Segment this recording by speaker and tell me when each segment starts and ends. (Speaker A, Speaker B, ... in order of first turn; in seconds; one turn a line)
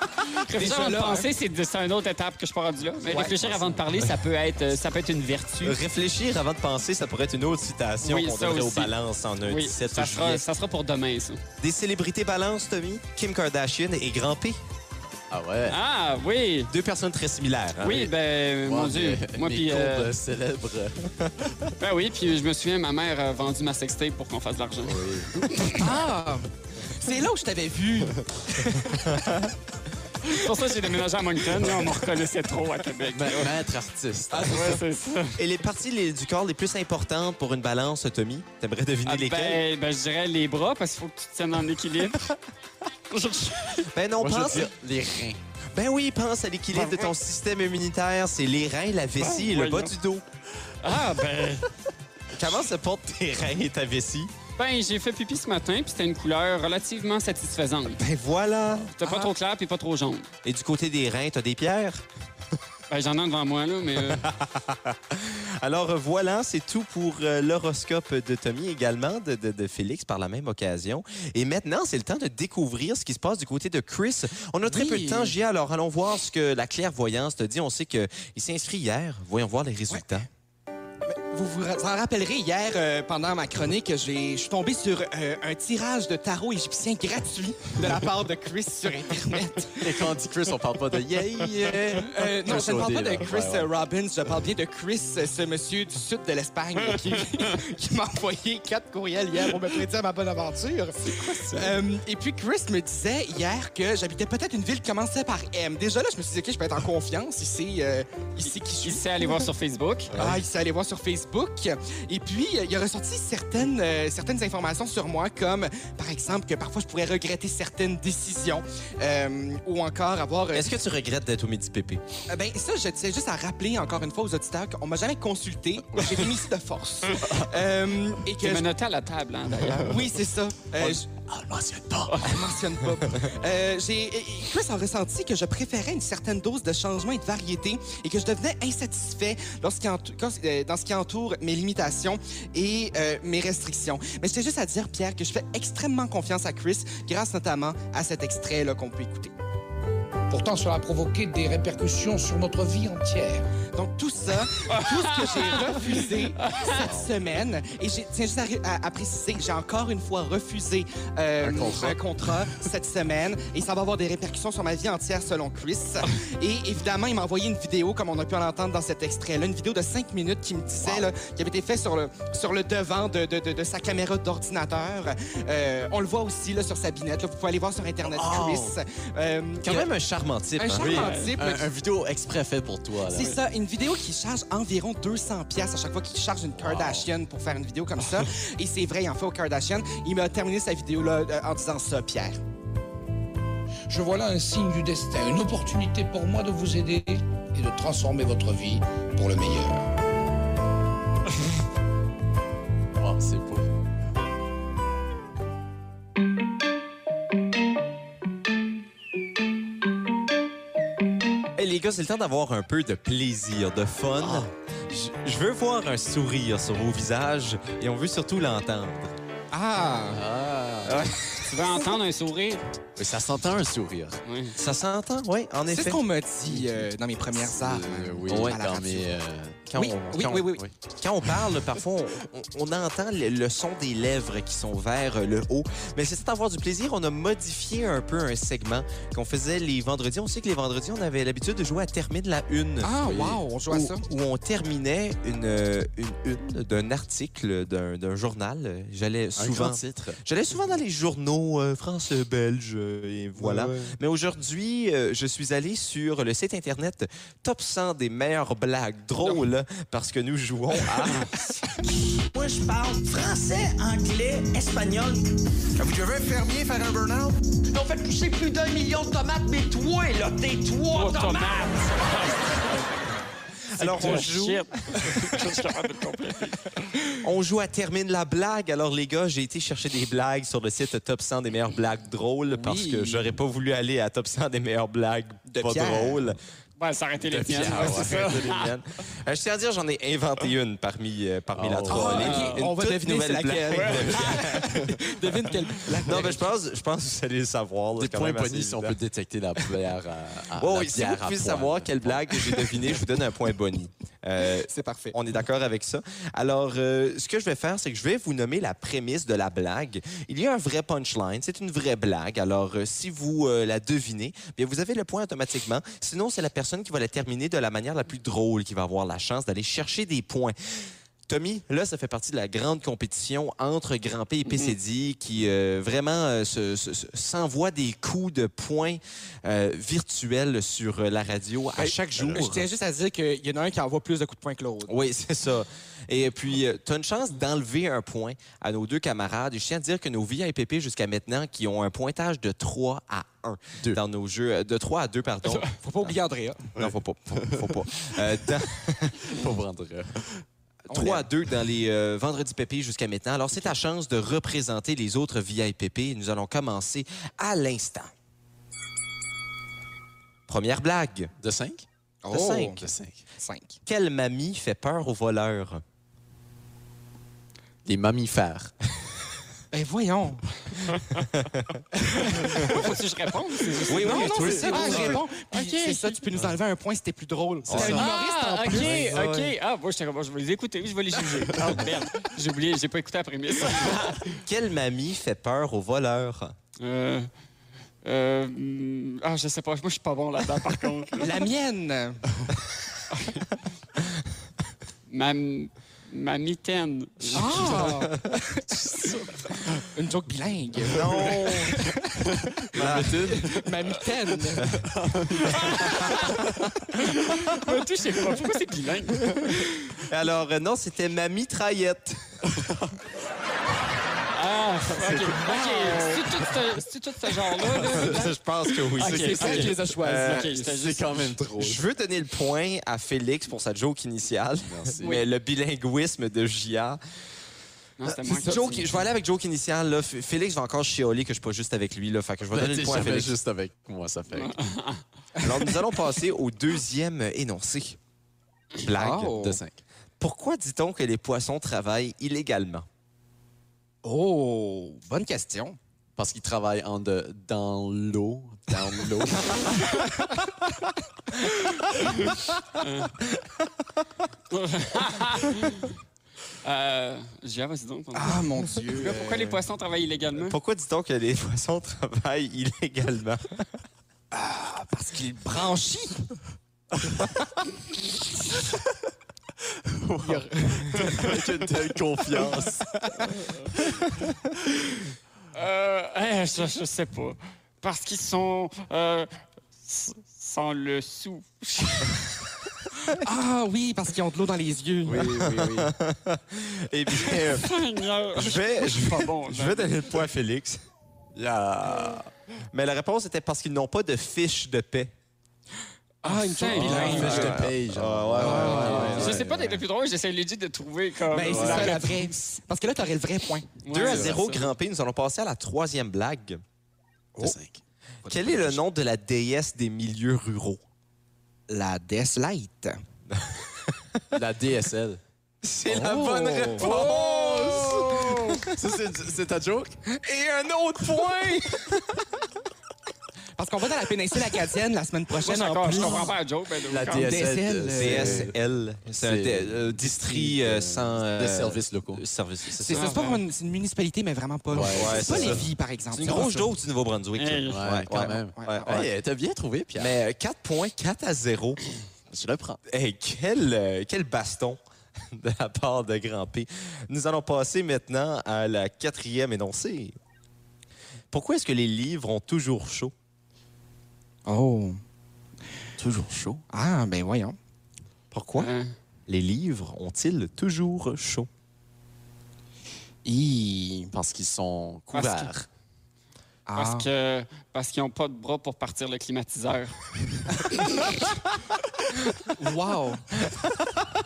Speaker A: 0.2-5.8
Speaker B: 0.6-1.3
Speaker C: 3.4-3.8
Speaker D: 5.6-10.4
Speaker A: 8.0-11.4
Speaker D: 11.6-14.6
Speaker C: 15.3-15.8
Speaker A: 15.7-16.7
Speaker D: 16.7-18.1
Speaker A: 17.8-20.1
Speaker C: 18.6-21.6
Speaker A: 21.8-25.8
Speaker C: 24.9-25.6
Speaker B: 25.8-29.1
Speaker A: 30.2-33.5
Speaker C: 33.1-34.8
Speaker A: 34.3-35.4
Speaker D: 35.3-39.6
Speaker A: 39.0-42.3
Speaker A: 43.1-43.9
Speaker D: 43.9-44.7
Speaker C: 44.2-45.4
Speaker D: 45.7-50.2
Speaker A: 46.7-47.1
Speaker A: 49.2-49.9
Speaker A: 50.8-51.7
Speaker D: 52.3-54.3
Speaker A: 54.6-58.0
Speaker D: 58.0-58.9
Speaker A: 59.0-60.3
Speaker D: 60.4-62.0
Speaker A: 62.9-64.3
Speaker D: 64.0-80.3
Speaker B: 74.7-75.3
Speaker B: 79.9-80.2
Speaker B: 81.0-90.0
Speaker C: 89.8-93.7
Speaker B: 91.9-109.5
Speaker A: 108.4-110.1
Speaker C: 110.1-110.4
Speaker B: 110.1-120.7
Speaker D: 120.5-122.0
Speaker B: 122.3-128.7
Speaker C: 125.9-126.5
Speaker C: 127.2-127.5
Speaker A: 128.4-129.9
Speaker C: 129.7-130.2
Speaker B: 129.8-131.1
Speaker C: 130.8-132.6
Speaker B: 132.2-149.3
Speaker E: 150.3-153.6
Speaker B: 153.7-179.8
Speaker A: 154.7-155.8
Speaker A: 156.5-156.8
Speaker C: 156.8-157.1
Speaker C: 161.4-162.0
Speaker C: 170.8-171.1
Speaker C: 178.1-178.8
Speaker D: 179.6-180.9
Speaker B: 180.6-181.7
Speaker C: 180.8-183.4
Speaker A: 180.9-181.3
Speaker B: 183.0-192.4
Speaker C: 186.6-187.1
Speaker E: 193.9-199.9
Speaker C: 203.0-203.7
Speaker D: 211.6-219.2
Speaker C: 214.2-214.5
Speaker B: 219.5-220.2
Speaker C: 220.1-221.1
Speaker D: 220.8-221.9
Speaker A: 221.5-222.6
Speaker C: 223.0-224.2
Speaker A: 224.3-224.6
Speaker D: 224.6-226.0
Speaker B: 225.7-229.1
Speaker C: 226.5-230.7
Speaker D: 229.7-243.0
Speaker B: 229.8-230.6
Speaker B: 242.8-244.0
Speaker C: 243.0-243.4
Speaker D: 243.7-261.3
Speaker C: 249.4-250.2
Speaker C: 253.4-254.0
Speaker F: 262.3-266.4
Speaker B: 265.9-267.3
Speaker F: 266.9-272.6
Speaker A: 270.9-273.2
Speaker D: 273.7-275.3
Speaker A: 273.8-277.0
Speaker D: 277.2-286.4
Speaker B: 282.5-283.3
Speaker B: 285.5-286.2
Speaker A: 286.8-288.7
Speaker C: 287.3-288.3
Speaker D: 287.6-295.1
Speaker C: 291.6-292.3
Speaker B: 291.9-296.4
Speaker A: 292.1-292.7
Speaker A: 293.7-294.5
Speaker D: 295.9-299.0
Speaker C: 298.0-302.6
Speaker D: 300.6-320.6
Speaker B: 304.7-305.2
Speaker D: 321.3-332.7
Speaker A: 324.5-324.7
Speaker B: 331.8-334.9
Speaker D: 334.9-346.1
Speaker B: 345.8-346.7
Speaker C: 346.8-347.8
Speaker D: 346.8-349.3
Speaker C: 349.3-350.4
Speaker D: 350.9-358.1
Speaker B: 350.9-351.3
Speaker D: 360.5-361.3
Speaker C: 361.4-361.9
Speaker B: 362.2-362.9
Speaker D: 362.3-362.8
Speaker C: 362.8-363.2
Speaker B: 363.4-363.8
Speaker D: 363.9-365.8
Speaker C: 367.9-368.7
Speaker B: 369.7-370.4
Speaker A: 370.9-371.3
Speaker B: 371.9-372.9
Speaker A: 372.1-376.2
Speaker B: 373.9-379.0
Speaker C: 373.9-375.2
Speaker C: 377.7-378.1
Speaker D: 377.7-378.0
Speaker A: 377.9-384.3
Speaker D: 378.7-379.5
Speaker D: 384.1-386.6
Speaker A: 386.8-387.3
Speaker A: 388.0-391.4
Speaker B: 391.2-392.3
Speaker A: 393.1-393.5
Speaker A: 395.1-397.8
Speaker C: 397.3-397.8
Speaker B: 397.4-399.0
Speaker D: 397.5-398.4
Speaker A: 399.0-399.3
Speaker B: 399.9-402.0
Speaker D: 400.9-401.9
Speaker C: 402.4-404.0
Speaker D: 402.7-403.4
Speaker B: 403.3-404.7
Speaker C: 404.6-405.7
Speaker A: 405.3-406.4
Speaker A: 406.9-409.9
Speaker D: 410.0-412.5
Speaker C: 412.4-412.9
Speaker A: 414.3-421.3
Speaker C: 415.0-415.4
Speaker B: 415.4-416.2
Speaker B: 417.7-418.3
Speaker D: 417.8-420.7
Speaker B: 419.0-420.4
Speaker C: 420.6-421.8
Speaker D: 421.6-427.0
Speaker C: 424.7-425.2
Speaker A: 428.0-428.9
Speaker D: 428.1-433.4
Speaker B: 428.3-428.6
Speaker C: 432.5-434.6
Speaker A: 434.3-435.0
Speaker B: 435.4-435.7
Speaker D: 435.4-438.0
Speaker D: 438.8-439.4
Speaker B: 438.9-439.6
Speaker C: 439.3-439.8
Speaker D: 440.2-442.9
Speaker B: 444.0-445.8
Speaker C: 446.2-450.1
Speaker B: 449.5-450.1
Speaker A: 452.0-453.1
Speaker D: 453.4-453.7
Speaker A: 454.5-455.9
Speaker A: 456.6-460.6
Speaker B: 458.1-459.6
Speaker D: 460.4-463.7
Speaker B: 464.3-466.2
Speaker C: 469.9-473.0
Speaker B: 470.2-471.4
Speaker A: 475.5-479.3
Speaker A: 479.9-482.2
Speaker B: 483.2-485.4
Speaker C: 485.1-485.9
Speaker D: 485.3-487.8
Speaker A: 487.5-489.9
Speaker D: 488.3-490.8
Speaker C: 491.4-492.3
Speaker D: 492.7-495.1
Speaker A: 496.2-497.5
Speaker B: 496.2-497.6
Speaker C: 496.7-499.7
Speaker D: 496.8-499.5
Speaker B: 498.4-499.4
Speaker A: 498.8-502.3
Speaker B: 501.3-503.8
Speaker C: 501.5-502.1
Speaker A: 503.8-504.7
Speaker D: 503.9-506.6
Speaker C: 504.0-504.4
Speaker C: 507.4-507.8
Speaker B: 508.2-508.8
Speaker D: 508.3-510.8
Speaker B: 511.7-513.0
Speaker D: 513.3-513.6
Speaker C: 514.3-515.2
Speaker D: 515.6-518.7
Speaker B: 515.9-517.1
Speaker A: 516.8-517.8
Speaker C: 517.7-518.0
Speaker B: 517.7-518.0
Speaker C: 518.7-520.0
Speaker B: 520.1-521.9
Speaker B: 523.6-526.3
Speaker A: 525.4-527.3
Speaker C: 525.9-526.3
Speaker C: 526.9-528.5
Speaker B: 527.1-528.5
Speaker D: 528.0-533.2
Speaker C: 529.2-532.2
Speaker B: 532.8-536.7
Speaker A: 532.9-533.4
Speaker C: 534.7-535.7
Speaker D: 534.8-539.1
Speaker A: 537.4-537.8
Speaker C: 537.7-540.1
Speaker B: 538.6-539.1
Speaker D: 540.0-541.8
Speaker C: 542.3-542.8
Speaker D: 542.9-550.2
Speaker D: 551.3-553.1
Speaker B: 554.5-555.0
Speaker C: 556.0-556.6
Speaker B: 556.7-557.6
Speaker D: 558.3-558.7
Speaker A: 558.6-558.9
Speaker D: 559.3-561.5
Speaker B: 563.2-564.1
Speaker C: 564.1-565.7
Speaker A: 565.1-565.5
Speaker B: 566.7-567.1
Speaker A: 566.8-570.9
Speaker B: 572.6-573.3